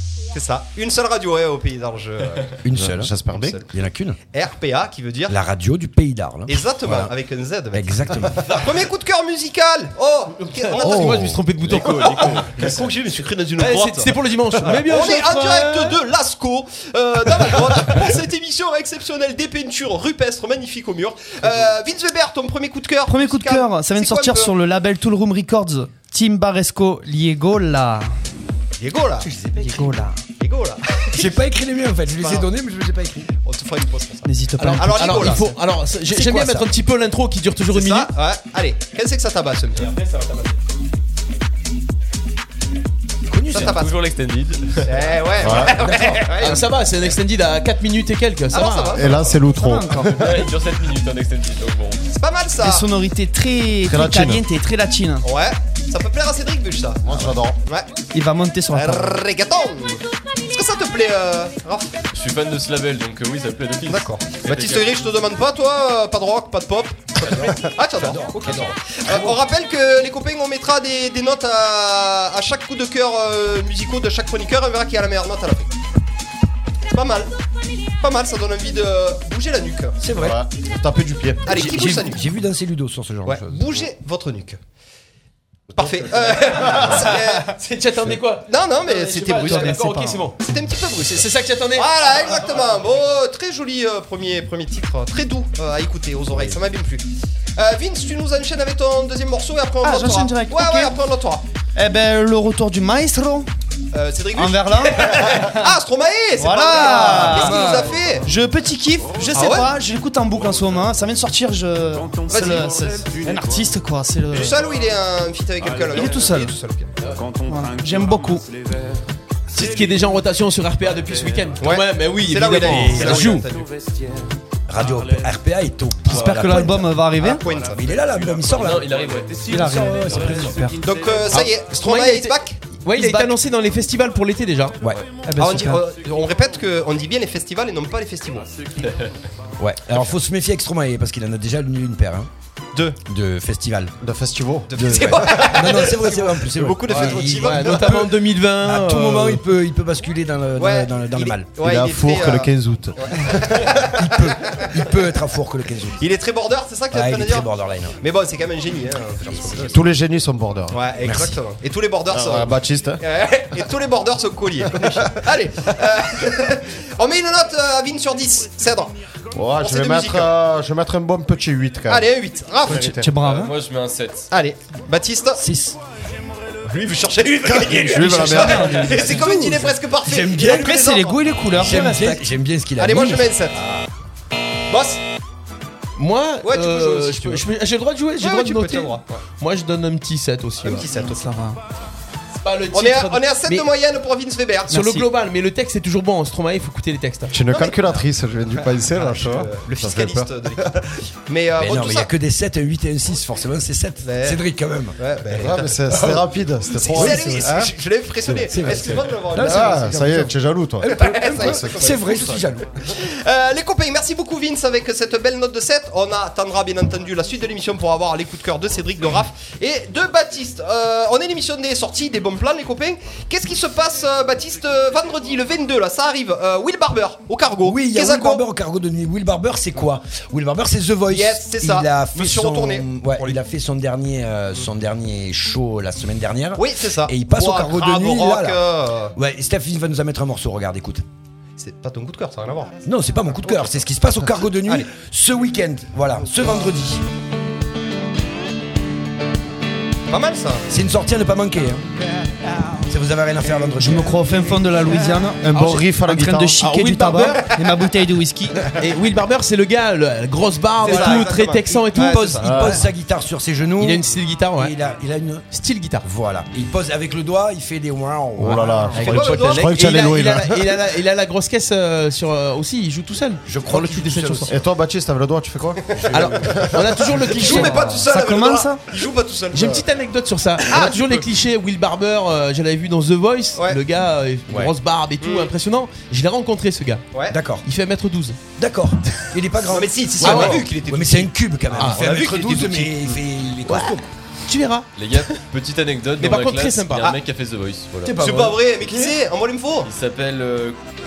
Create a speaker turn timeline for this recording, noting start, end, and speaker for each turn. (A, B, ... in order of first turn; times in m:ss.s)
0:00.3-0:02.6 A
0:02.6-0:03.2 B
0:02.7-0:03.6 C
0:03.3-0:03.7 A
0:03.7-0:04.2 B
0:04.3-0:05.4 A
0:05.3-0:07.1 B
0:06.5-0:11.3 A
0:07.7-0:08.6 B
0:10.7-0:12.5 D
0:10.8-0:11.4 B
0:11.5-0:12.8 E
0:11.9-0:24.5 A
0:13.6-0:16.0 D
0:23.1-0:28.1 F
0:28.8-0:29.3 A
0:29.2-0:30.0 B
0:29.6-0:30.1 F
0:30.4-0:31.3 A
0:31.1-0:33.3 B
0:32.2-0:32.5 A
0:33.4-0:35.6 A
0:34.2-0:35.5 F
0:34.6-0:38.1 D
0:36.1-0:36.7 B
0:37.7-0:39.9 A
0:39.8-0:40.6 E
0:43.3-0:43.8 B
0:43.5-0:44.0 A
0:43.5-0:45.4 E
0:44.8-0:46.7 A
0:45.4-0:45.8 C
0:45.7-0:46.7 B
0:46.4-0:49.1 D
0:48.5-0:49.3 A
0:48.9-0:50.5 C
0:49.5-0:50.2 F
0:50.1-0:52.1 E
0:52.2-0:52.8 A
0:52.6-0:55.2 F
0:53.8-0:54.4 C
0:55.2-0:57.9 A
0:57.0-0:57.6 C
0:58.1-0:59.2 F
0:58.7-1:02.0 A
1:02.1-1:05.0 E
1:03.9-1:15.7 A
1:07.2-1:09.4 B
1:16.9-1:17.3 A
1:18.0-1:20.0 A
1:20.0-1:20.4 B
1:20.2-1:21.6 C
1:21.4-1:22.3 A
1:21.5-1:23.6 B
1:23.2-1:24.6 A
1:25.7-1:26.9 C
1:25.8-1:27.5 A
1:26.7-1:30.4 D
1:28.5-1:29.8 A
1:29.4-1:30.2 F
1:30.4-1:41.4 A
1:31.1-1:31.9 D
1:39.8-1:40.9 F
1:41.7-1:43.5 F
1:43.9-1:48.3 A
1:44.3-1:45.7 F
1:46.4-1:54.6 F
1:49.3-1:49.7 A
1:52.3-1:52.8 A
1:54.3-1:56.9 A
1:55.9-1:56.5 F
1:57.4-1:58.4 F
1:59.5-2:03.4 D
2:01.6-2:03.7 A
2:02.6-2:03.4 B
2:04.7-2:09.0 B
2:06.0-2:07.4 F
2:06.1-2:06.6 E
2:07.2-2:07.9 A
2:07.4-2:09.5 E
2:09.4-2:10.8 F
2:09.5-2:10.7 B
2:10.8-2:12.6 A
2:11.3-2:14.8 D
2:12.9-2:13.4 F
2:15.2-2:15.8 F
2:15.4-2:18.5 A
2:18.8-2:19.1 E
2:19.6-2:22.3 B
2:22.7-2:23.0 A
2:23.0-2:23.9 B
2:24.0-2:25.8 C
2:24.7-2:28.1 A
2:24.8-2:31.5 B
2:26.9-2:29.4 D
2:30.6-2:34.8 A
2:31.6-2:33.8 C
2:33.9-2:36.0 B
2:36.0-2:39.9 A
2:36.9-2:38.0 B
2:39.2-2:39.8 B
2:39.7-2:40.8 C
2:40.7-2:48.9 A
2:41.0-2:41.4 B
2:42.1-2:43.0 C
2:49.3-2:52.1 C
2:49.6-2:50.3 A
2:51.9-2:52.8 A
2:52.6-2:53.2 C
2:52.6-2:53.5 F
2:53.2-2:54.3 E
2:54.3-2:55.4 A
2:55.4-2:55.8 B
2:56.6-3:01.2 A
2:57.5-2:58.0 B
2:57.8-2:58.9 C
2:58.1-2:59.7 F
2:59.0-3:00.8 B
3:00.5-3:02.2 F
3:01.5-3:03.8 B
3:02.8-3:03.6 A
3:04.7-3:05.0 A
3:06.0-3:10.8 D
3:06.4-3:07.4 A
3:08.2-3:09.2 A
3:10.6-3:11.3 A
3:11.0-3:11.6 F
3:12.4-3:13.7 D
3:12.7-3:14.7 A
3:14.7-3:15.0 F
3:14.7-3:17.3 D
3:17.3-3:20.8 C
3:17.4-3:18.0 A
3:18.6-3:22.1 A
3:21.6-3:25.0 B
3:24.0-3:26.1 A
3:25.3-3:27.7 C
3:26.8-3:30.0 A
3:26.9-3:27.6 B
3:28.3-3:30.3 B
3:29.4-3:32.0 C
3:30.8-3:48.4 A
3:30.8-3:32.7 B
3:47.6-3:58.6 B
3:51.1-3:53.4 A
3:56.6-3:59.1 A
3:59.1-4:01.0 B
4:01.6-4:02.8 A
4:02.8-4:07.0 B
4:04.6-4:04.9 A
4:10.1-4:10.6 A
4:10.7-4:11.9 B
4:12.8-4:14.2 B
4:13.8-4:18.6 F
4:15.4-4:16.6 C
4:15.5-4:15.9 D
4:16.6-4:17.5 D
4:18.7-4:22.4 D
4:20.8-4:22.8 A
4:21.9-4:24.0 B
4:22.4-4:22.8 C
4:23.8-4:24.7 D
4:24.6-4:25.4 B
4:25.5-4:26.0 D
4:26.0-4:28.8 B
4:28.4-4:30.8 C
4:28.9-4:29.7 A
4:29.0-4:34.5 D
4:33.4-4:34.5 B
4:34.5-4:36.8 C
4:36.0-4:36.6 B
4:36.1-4:37.8 D
4:36.7-4:39.8 A
4:37.5-4:38.8 F
4:39.5-4:47.0 D
4:40.6-4:41.2 A
4:45.2-4:45.5 A
4:47.3-4:47.6 B
4:47.6-4:48.4 D
4:48.6-4:54.0 B
4:49.7-4:53.2 A
4:50.2-4:50.6 D
4:51.7-4:52.0 D
4:53.6-4:55.4 D
4:55.0-4:58.2 E
4:56.2-4:57.1 D
4:58.0-4:59.1 B
4:58.2-4:59.9 A
4:59.8-5:00.9 E